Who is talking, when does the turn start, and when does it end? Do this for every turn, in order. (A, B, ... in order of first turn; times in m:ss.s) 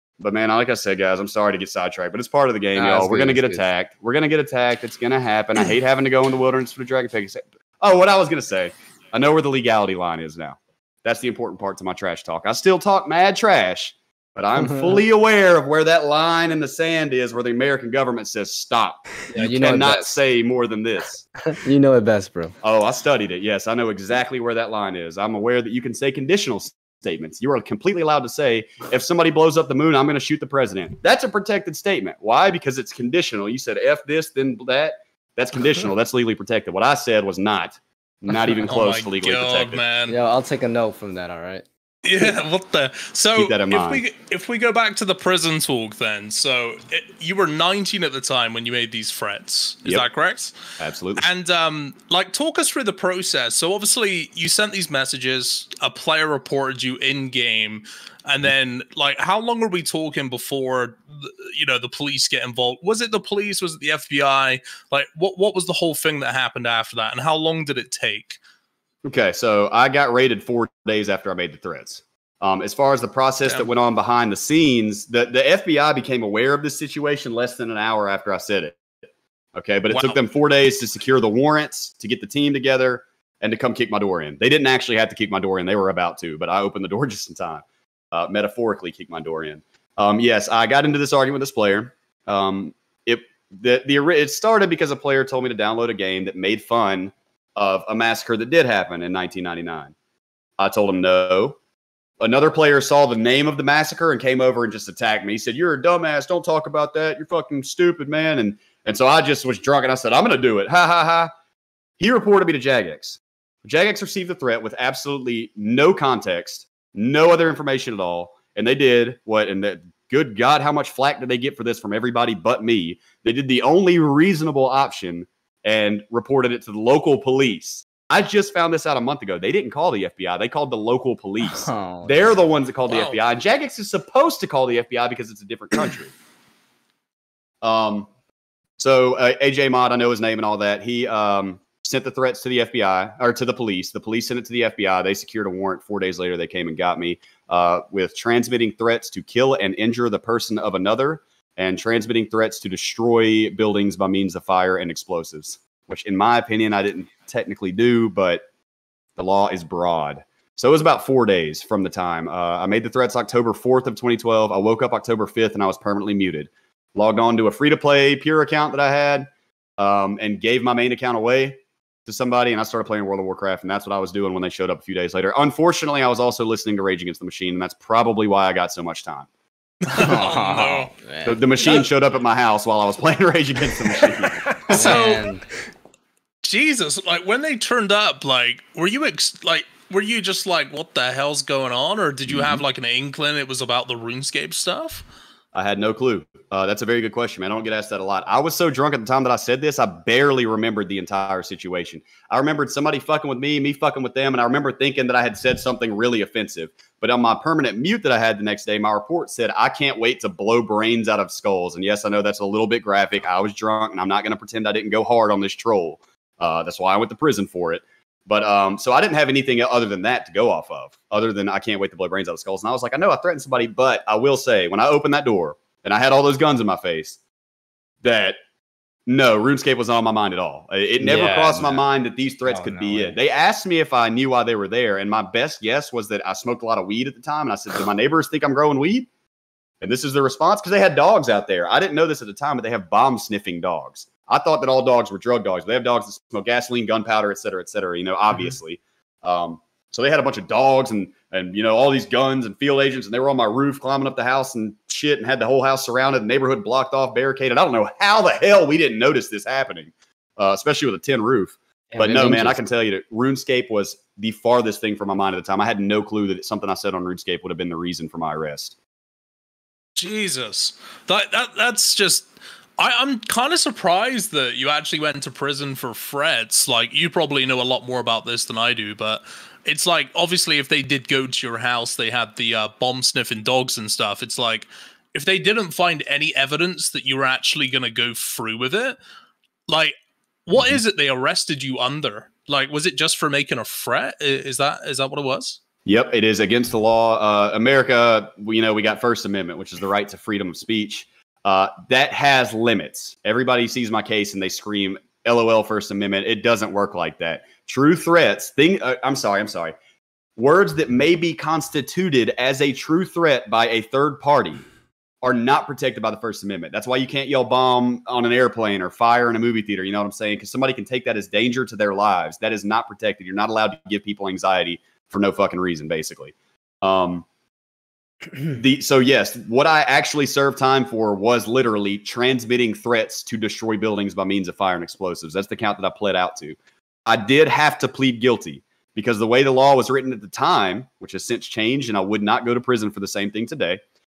0:00.2-0:21.3 A
0:02.8-0:03.6 B
0:14.6-0:15.0 B
0:19.3-0:20.1 B
0:21.4-0:22.6 B
0:22.6-0:39.8 A
0:38.3-0:40.2 C
0:40.1-0:41.6 B
0:42.0-0:50.6 C
0:43.4-0:44.0 A
0:50.8-0:51.3 A
0:51.2-1:08.4 C
1:09.0-1:18.8 A
1:13.4-1:13.7 C
1:19.5-1:39.9 A
1:19.9-1:20.2 C
1:40.6-1:41.6 A
1:42.2-1:51.3 A
1:52.0-2:16.1 A
2:11.5-2:12.4 B
2:12.9-2:13.2 C
2:17.6-2:18.1 A
2:18.8-2:38.4 A
2:39.2-2:59.3 A
2:59.9-3:00.9 C
2:59.9-3:01.7 B
3:01.2-3:04.9 A
3:04.7-3:05.3 C
3:04.7-3:05.4 B
3:06.4-3:15.0 C
3:12.3-3:12.6 A
3:15.5-3:47.2 A
3:48.0-3:48.4 A
3:49.1-3:59.1 A
3:51.0-3:51.8 B
3:52.5-3:53.2 B
3:59.8-4:28.7 A
4:21.9-4:22.6 B
4:30.0-4:49.0 C
4:49.7-4:55.6 C
4:55.8-5:09.7 A
5:10.4-5:14.6 A
5:15.2-5:27.2 A
5:28.4-5:43.8 A